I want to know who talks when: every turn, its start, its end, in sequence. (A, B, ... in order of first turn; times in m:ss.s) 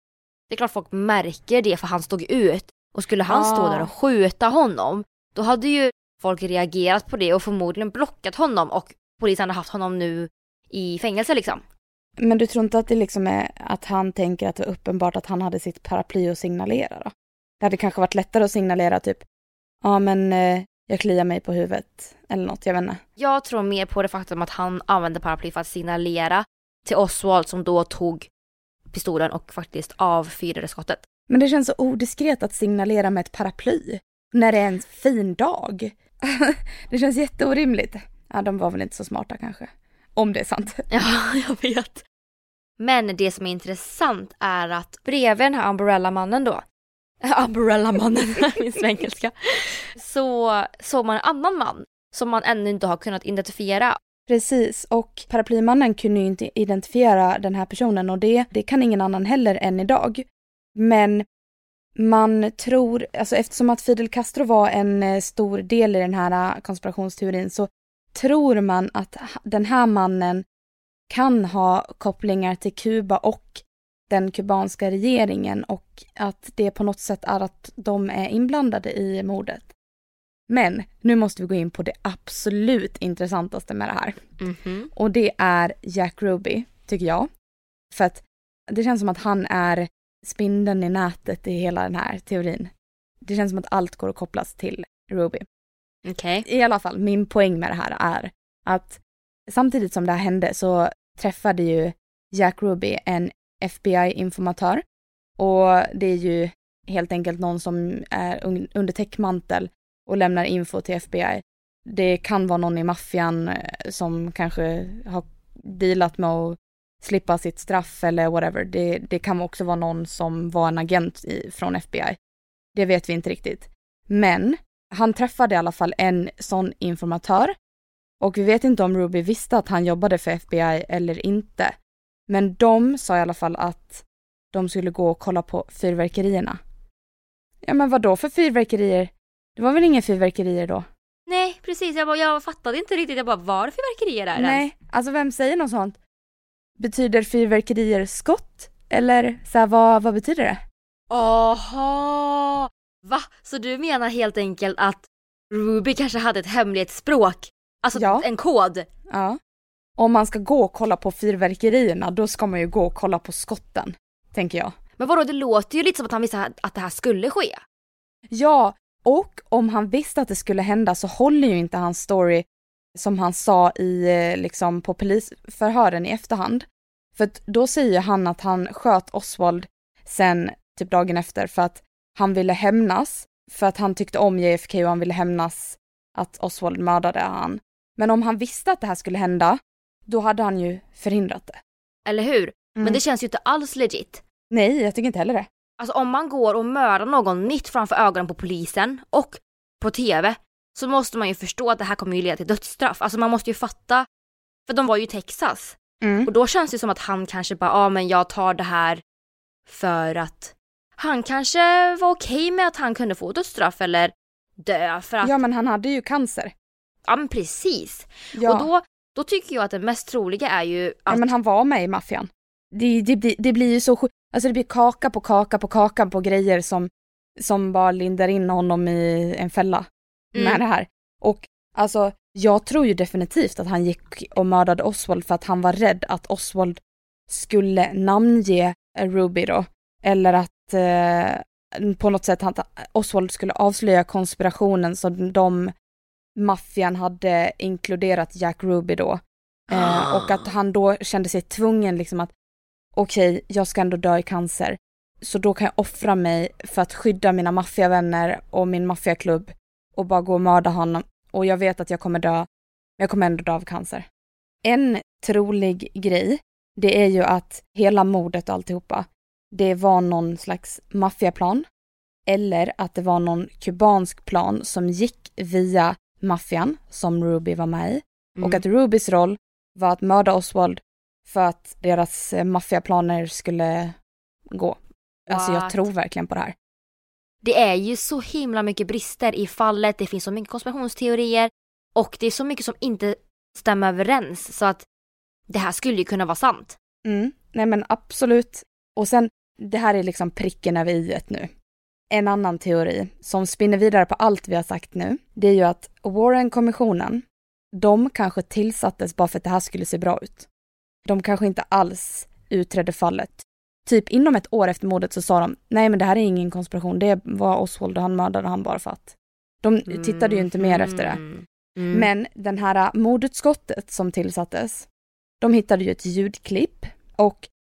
0:00.5-0:11.6 A
0:03.3-0:03.9 B
0:12.2-0:19.2 B
0:19.8-0:23.0 B
0:23.2-0:28.3 A
0:28.9-0:31.0 A
0:31.3-0:40.8 B
0:40.9-0:42.0 A
0:42.8-0:46.6 A
0:47.2-0:54.0 A
0:54.3-1:01.2 B
1:02.0-1:10.4 B
1:11.1-1:19.7 B
1:20.5-1:24.2 B
1:24.4-1:24.9 A
1:24.9-1:27.3 B
1:27.9-1:32.7 B
1:33.2-1:35.4 B
1:36.0-1:36.4 A
1:36.4-1:44.8 B
1:45.4-2:02.2 B
2:02.7-2:07.5 B
2:08.2-2:11.7 B
2:12.3-2:16.6 B
2:17.6-2:20.9 B
2:21.3-2:24.6 A
2:24.4-2:26.0 B
2:26.8-2:30.6 B
2:31.1-2:38.8 A
2:37.9-2:38.2 B
2:39.1-2:39.4 B
2:40.0-2:44.7 B
2:45.0-2:47.6 A
2:48.3-2:52.4 B
2:53.0-3:11.6 B
3:12.0-3:14.2 A
3:14.5-3:15.5 B
3:15.8-3:24.0 A
3:24.7-3:29.0 A
3:26.0-3:26.3 B
3:29.7-3:35.4 A
3:35.2-3:36.5 B
3:37.0-3:41.3 A
3:38.3-3:38.7 B
3:41.1-3:46.9 B
3:47.4-4:05.7 B
3:50.3-3:50.6 A
4:06.4-4:12.3 B
4:09.7-4:10.4 A
4:12.9-4:22.5 B
4:23.0-4:24.1 B
4:24.6-4:31.6 B
4:32.3-4:44.0 B
4:38.4-4:38.6 A
4:44.5-4:46.5 B
4:45.3-4:45.8 A
4:47.4-4:54.8 A
4:55.5-4:56.8 A
4:57.0-5:01.5 B
5:02.1-5:10.5 B
5:11.0-5:21.2 B
5:19.9-5:22.1 A
5:21.9-5:24.8 B
5:25.4-5:27.5 B